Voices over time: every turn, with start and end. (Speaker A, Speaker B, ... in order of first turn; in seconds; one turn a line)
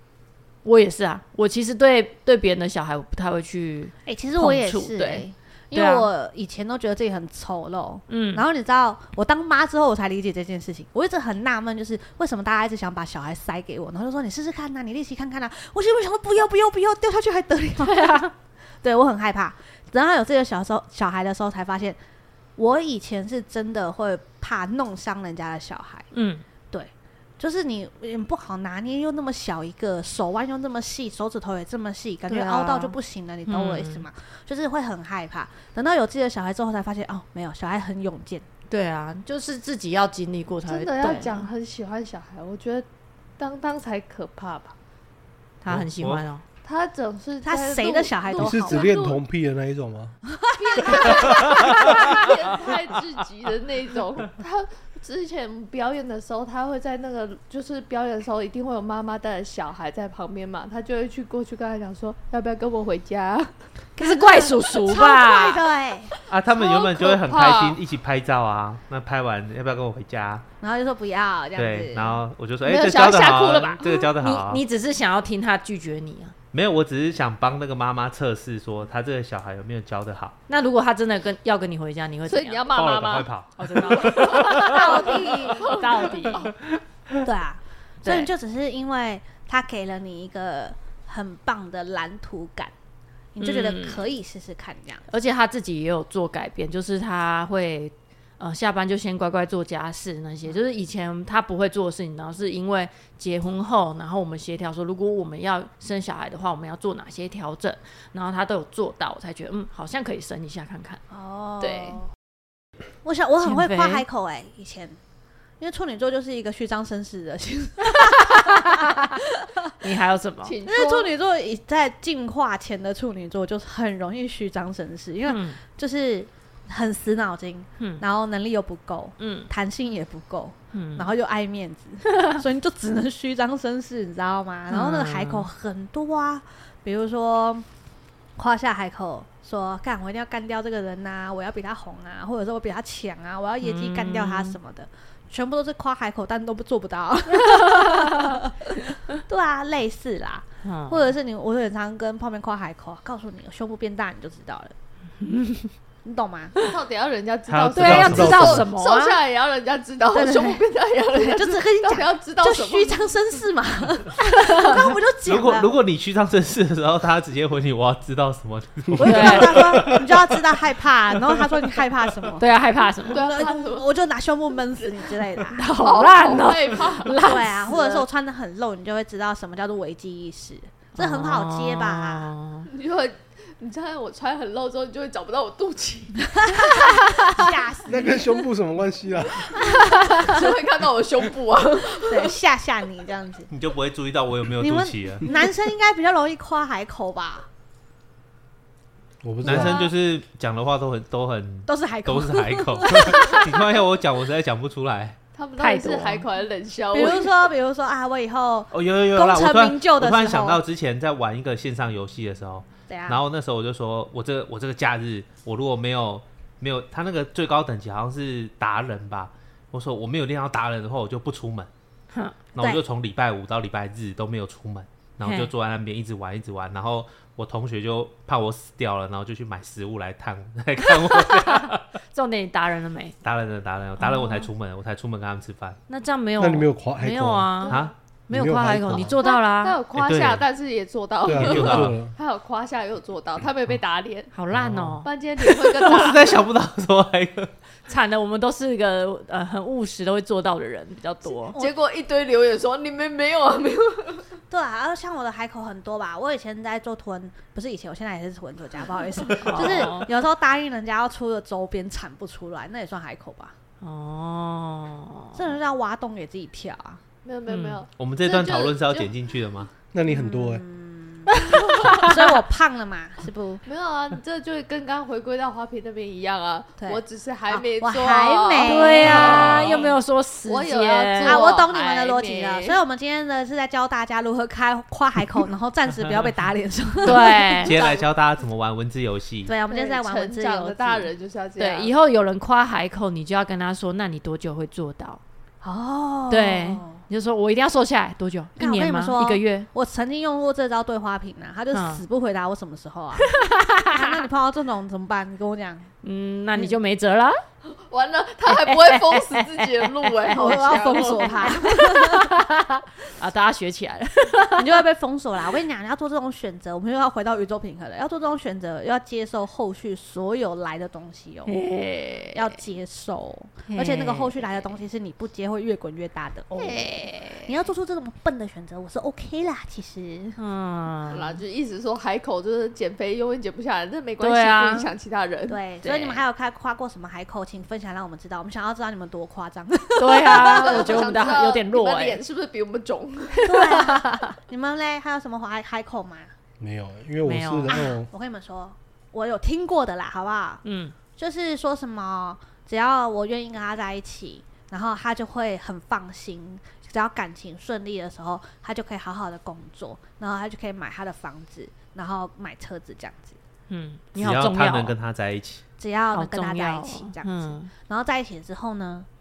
Speaker A: 0.6-6.1
Speaker B: 4.0-18.2
Speaker A: 8.1-8.4
Speaker A: 17.8-18.3
Speaker B: 18.8-22.0
Speaker B: 22.6-26.1
Speaker A: 26.1-26.4
Speaker B: 26.7-38.4
Speaker A: 32.3-33.0
Speaker A: 33.5-34.0
Speaker A: 38.7-41.5
Speaker C: 40.6-42.9
Speaker C: 43.4-44.7
Speaker A: 45.6-46.4
Speaker D: 45.7-46.2
Speaker C: 46.6-49.2
Speaker B: 47.4-48.9
Speaker E: 48.4-50.1
Speaker B: 50.4-51.7
Speaker C: 50.6-63.5
Speaker D: 51.3-52.2
Speaker B: 64.0-66.1
Speaker A: 64.0-65.6
Speaker D: 66.3-70.4
Speaker C: 66.5-67.8
Speaker B: 70.6-72.2
Speaker D: 71.5-74.6
Speaker C: 72.6-74.1
Speaker A: 74.2-76.3
Speaker D: 76.5-80.3
Speaker A: 80.5-82.7
Speaker C: 82.2-83.3
Speaker D: 82.7-84.6
Speaker A: 83.6-86.5
Speaker C: 83.8-86.5
Speaker B: 84.5-85.9
Speaker B: 87.2-92.7
Speaker A: 88.0-88.3
Speaker B: 93.3-95.1
Speaker A: 93.4-94.0
Speaker A: 95.1-111.0
Speaker B: 111.1-112.1
Speaker A: 111.6-112.0
Speaker B: 113.0-115.0
Speaker A: 113.4-114.0
Speaker B: 115.6-119.8
Speaker A: 118.0-119.1
Speaker A: 119.8-120.5
Speaker C: 120.4-121.1
Speaker B: 120.6-137.7
Speaker A: 125.2-125.6
Speaker A: 127.8-128.0
Speaker A: 129.2-129.5
Speaker A: 130.7-131.1
Speaker A: 134.7-135.5
Speaker B: 138.4-154.7
Speaker A: 143.6-144.6
Speaker A: 147.6-148.1
Speaker A: 150.6-151.1
Speaker A: 155.2-155.7
Speaker B: 156.0-156.5
Speaker C: 156.6-163.0
Speaker D: 157.5-158.6
Speaker A: 157.7-159.2
Speaker E: 157.9-158.7
Speaker B: 160.1-165.7
Speaker D: 165.2-170.4
Speaker B: 169.0-172.5
Speaker A: 169.0-169.7
Speaker D: 171.2-171.8
Speaker A: 172.4-173.3
Speaker C: 173.1-173.8
Speaker B: 173.1-175.6
Speaker A: 175.5-178.0
Speaker C: 175.6-178.0
Speaker B: 177.1-182.3
Speaker A: 180.9-182.7
Speaker C: 182.7-186.7
Speaker B: 186.3-188.3
Speaker E: 187.9-189.6
Speaker C: 189.5-192.3
Speaker B: 189.6-190.5
Speaker A: 189.9-190.3
Speaker B: 191.9-193.5
Speaker D: 193.5-195.3
Speaker B: 194.6-197.5
Speaker E: 199.2-199.9
Speaker D: 199.4-205.2
Speaker B: 201.7-203.5
Speaker C: 205.3-207.3
Speaker A: 205.6-206.2
Speaker B: 206.9-210.6
Speaker D: 208.7-221.7
Speaker B: 212.9-213.2
Speaker D: 222.5-231.8
Speaker A: 225.2-225.5
Speaker A: 231.0-233.2
Speaker D: 233.2-235.8
Speaker A: 234.0-234.4
Speaker A: 235.9-239.8
Speaker E: 236.4-237.6
Speaker C: 237.6-237.9
Speaker D: 237.7-237.9
Speaker E: 238.3-239.2
Speaker D: 238.9-239.1
Speaker C: 239.2-244.3
Speaker D: 239.9-240.4
Speaker E: 241.2-242.1
Speaker D: 241.2-242.0
Speaker A: 244.3-245.1
Speaker D: 244.5-247.5
Speaker C: 245.0-246.4
Speaker A: 247.9-251.6
Speaker B: 251.5-251.8
Speaker C: 251.5-254.2
Speaker B: 254.5-263.5
Speaker A: 259.4-260.1
Speaker A: 263.8-265.5
Speaker B: 265.3-267.0
Speaker C: 267.2-269.1
Speaker A: 267.5-267.8
Speaker D: 268.0-269.7
Speaker E: 269.9-270.6
Speaker B: 270.1-273.6
Speaker A: 271.3-272.2
Speaker C: 273.6-279.8
Speaker B: 276.8-279.9
Speaker A: 278.6-281.4
Speaker D: 279.0-279.8
Speaker C: 280.4-282.8
Speaker B: 281.2-287.9
Speaker A: 287.0-287.7
Speaker D: 287.6-289.5
Speaker B: 289.4-291.1
Speaker C: 289.7-291.9
Speaker A: 291.6-295.2
Speaker B: 295.6-297.0
Speaker A: 296.3-299.7
Speaker B: 298.6-305.9
Speaker A: 301.7-302.0
Speaker A: 303.3-304.1
Speaker A: 306.0-307.4
Speaker C: 307.9-311.6
Speaker A: 308.5-314.8
Speaker B: 310.3-312.3
Speaker B: 314.5-321.5
Speaker A: 321.4-322.4
Speaker B: 322.3-326.7
Speaker A: 323.7-324.4
Speaker C: 326.6-327.4
Speaker A: 326.6-327.2
Speaker B: 327.4-330.4
Speaker A: 330.4-331.4
Speaker C: 331.1-335.6
Speaker A: 334.2-334.9
Speaker B: 335.5-341.3
Speaker A: 335.8-336.2
Speaker A: 340.0-342.2
Speaker C: 340.3-343.5
Speaker A: 343.4-344.3
Speaker B: 343.4-346.3
Speaker E: 346.6-348.1
Speaker A: 347.2-347.7
Speaker B: 347.7-350.6
Speaker A: 350.6-350.9
Speaker B: 351.1-363.4
Speaker A: 363.7-364.9
Speaker D: 364.1-365.6
Speaker B: 365.8-369.1
Speaker A: 366.1-367.7